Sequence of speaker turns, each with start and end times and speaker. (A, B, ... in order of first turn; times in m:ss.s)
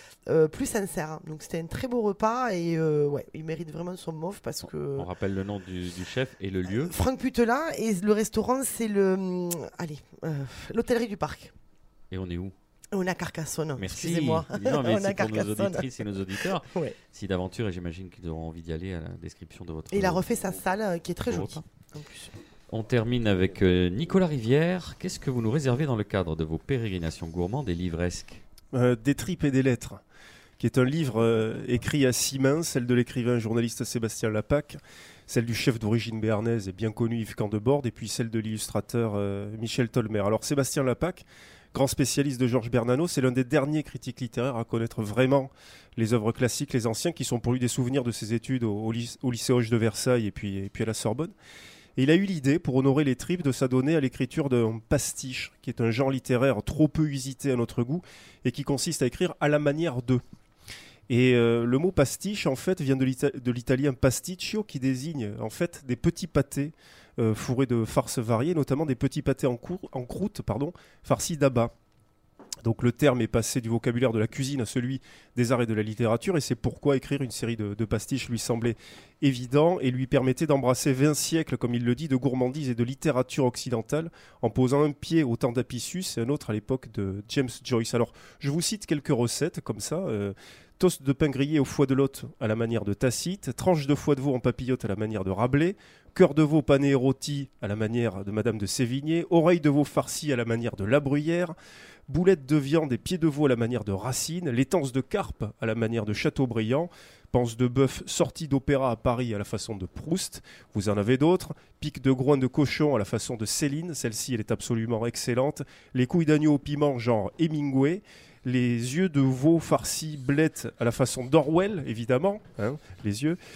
0:00.3-0:05.1 A
0:04.6-0:07.0 B
0:06.7-0:11.5 A
0:12.1-0:12.6 B
0:12.9-0:17.0 A
0:13.8-0:20.6 B
0:19.9-0:22.3 A
0:21.2-0:21.6 B
0:22.7-0:28.4 B
0:28.7-0:30.0 C
0:30.6-0:51.3 C
0:52.0-1:00.2 C
1:01.1-1:11.7 C
1:12.6-1:41.5 C
1:42.1-2:03.4 C